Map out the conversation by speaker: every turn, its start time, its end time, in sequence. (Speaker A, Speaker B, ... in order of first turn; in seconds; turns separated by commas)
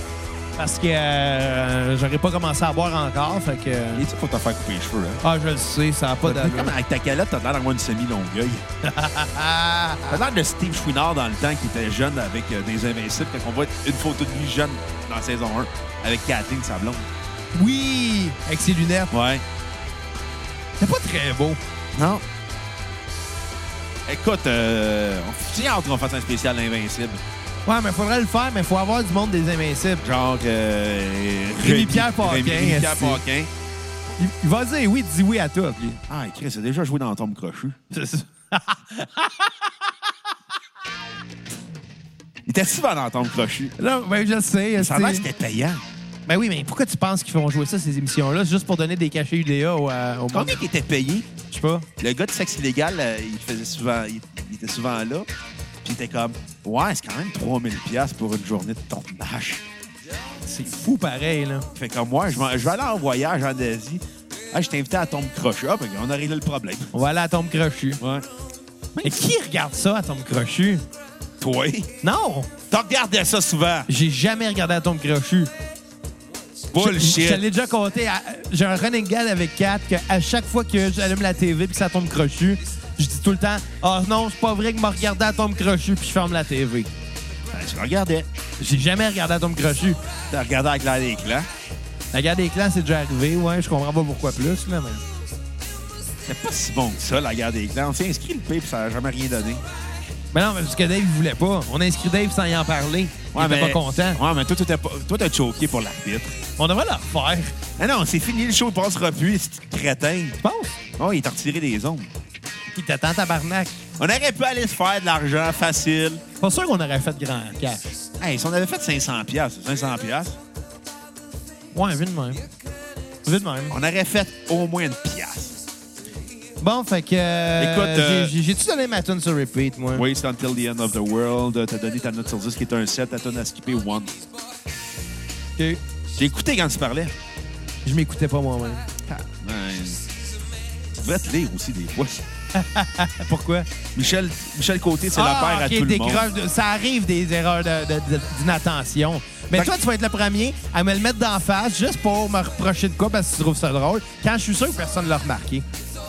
Speaker A: 0.6-4.0, Speaker B: 4.0-5.2, Speaker A: 5.2-6.7, Speaker B: 6.2-8.7, Speaker A: 8.8-10.2, Speaker B: 10.1-17.1, Speaker A: 17.5-19.1, Speaker B: 19.1-19.4, Speaker A: 20.8-21.6, Speaker B: 21.9-22.2, Speaker B: 24.1-27.2, Speaker A: 27.7-30.0, Speaker B: 30.0-33.5, Speaker A: 31.6-33.2, Speaker A: 34.2-36.0, Speaker B: 36.1-37.8, Speaker A: 37.9-39.6, Speaker B: 42.5-43.8, Speaker A: 43.8-45.3, Speaker B: 44.8-45.8, Speaker A: 46.3-50.6, Speaker B: 50.3-51.3, Speaker A: 51.5-51.9, Speaker B: 52.0-55.3, Speaker B: 55.8-59.6, Speaker A: 60.5-61.7, Speaker B: 61.8-66.9, Speaker A: 66.9-68.0, Speaker B: 68.0-68.2, Speaker B: 69.0-69.3, Speaker A: 69.0-70.8, Speaker B: 71.4-71.9, Speaker A: 72.0-72.5, Speaker B: 72.7-73.9, Speaker A: 73.9-75.5, Speaker B: 76.7-77.5, Speaker A: 76.8-86.9, Speaker B: 87.5-88.3, Speaker A: 88.6-90.0, Speaker B: 90.3-91.5, Speaker A: 92.1-95.0, Speaker B: 96.2-99.6, Speaker A: 100.3-104.2, Speaker B: 103.3-106.4, Speaker A: 106.6-107.5, Speaker B: 107.8-110.4, Speaker A: 110.4-110.8, Speaker B: 111.0-112.1, Speaker A: 112.8-113.8, Speaker B: 114.0-116.2, Speaker A: 116.4-117.8, Speaker B: 118.2-120.4, Speaker A: 121.7-122.4, Speaker A: 123.2-123.7, Speaker B: 123.7-125.6, Speaker A: 126.6-130.1, Speaker B: 127.6-128.3, Speaker B: 129.9-134.2, Speaker B: 136.2-137.1, Speaker A: 137.8-138.8, Speaker B: 139.1-140.0, Speaker B: 140.9-142.2, Speaker A: 142.6-143.7, Speaker B: 143.9-146.2, Speaker A: 145.2-155.7